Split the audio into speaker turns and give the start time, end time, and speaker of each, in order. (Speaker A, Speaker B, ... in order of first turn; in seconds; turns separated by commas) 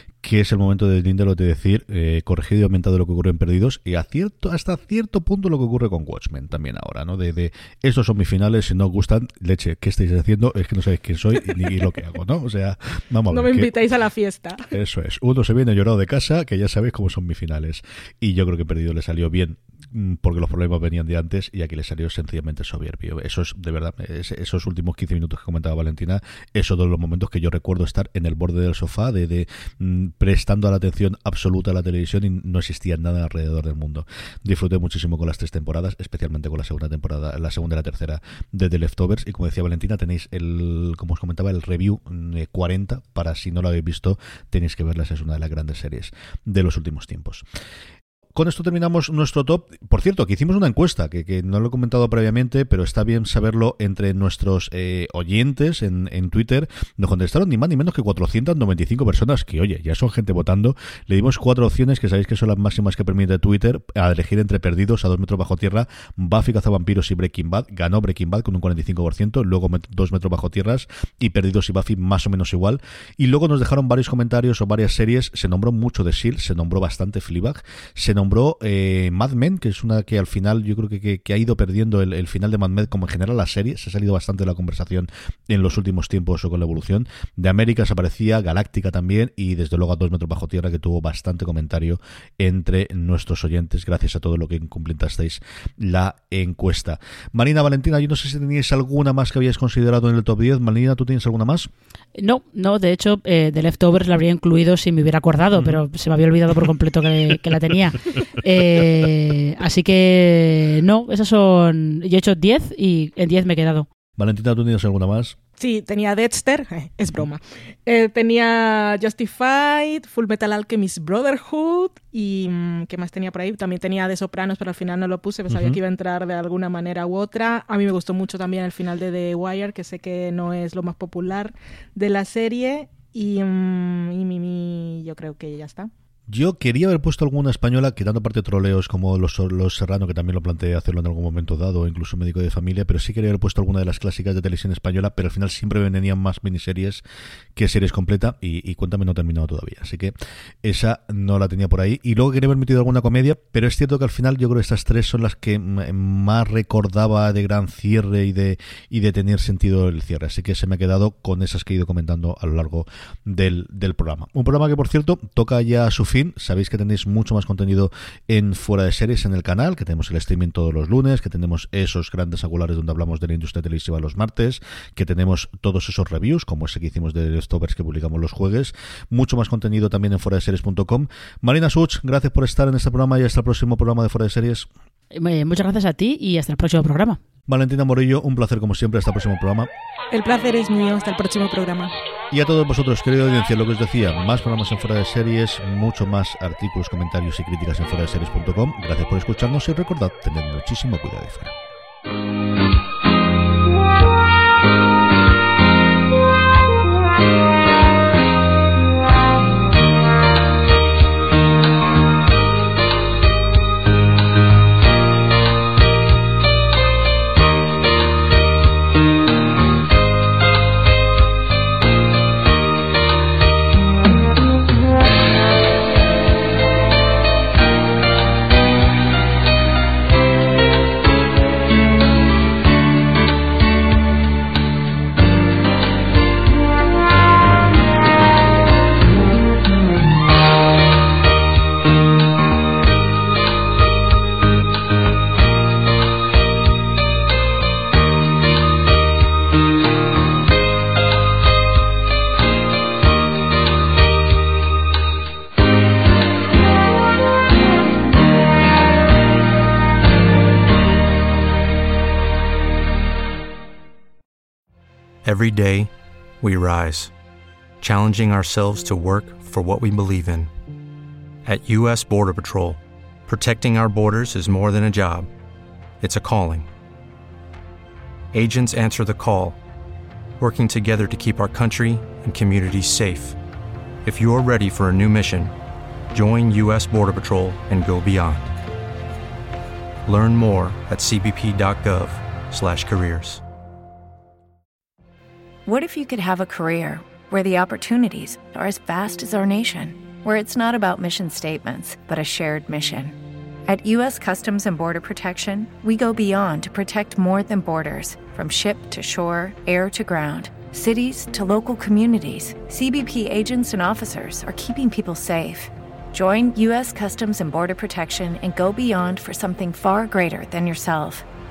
Speaker A: 0.2-13.7, Speaker B: 13.3-14.7, Speaker A: 14.7-47.4, Speaker A: 48.3-101.7, Speaker C: 102.1-113.9, Speaker A: 105.5-105.8, Speaker A: 114.2-115.4, Speaker B: 115.6-135.9, Speaker A: 125.5-125.8, Speaker A: 136.3-147.0, Speaker A: 147.6-184.7, Speaker C: 185.1-187.2, Speaker A: 187.5-189.7, Speaker B: 190.1-191.9, Speaker A: 192.3-201.5, Speaker D: 265.2-267.1, Speaker D: 267.8-270.5, Speaker D: 271.4-275.3, Speaker D: 276.0-276.7, Speaker D: 278.3-279.6, Speaker D: 280.4-283.4, Speaker D: 284.0-285.5, Speaker D: 286.1-288.5, Speaker D: 290.1-293.4, Speaker E: 295.6-321.2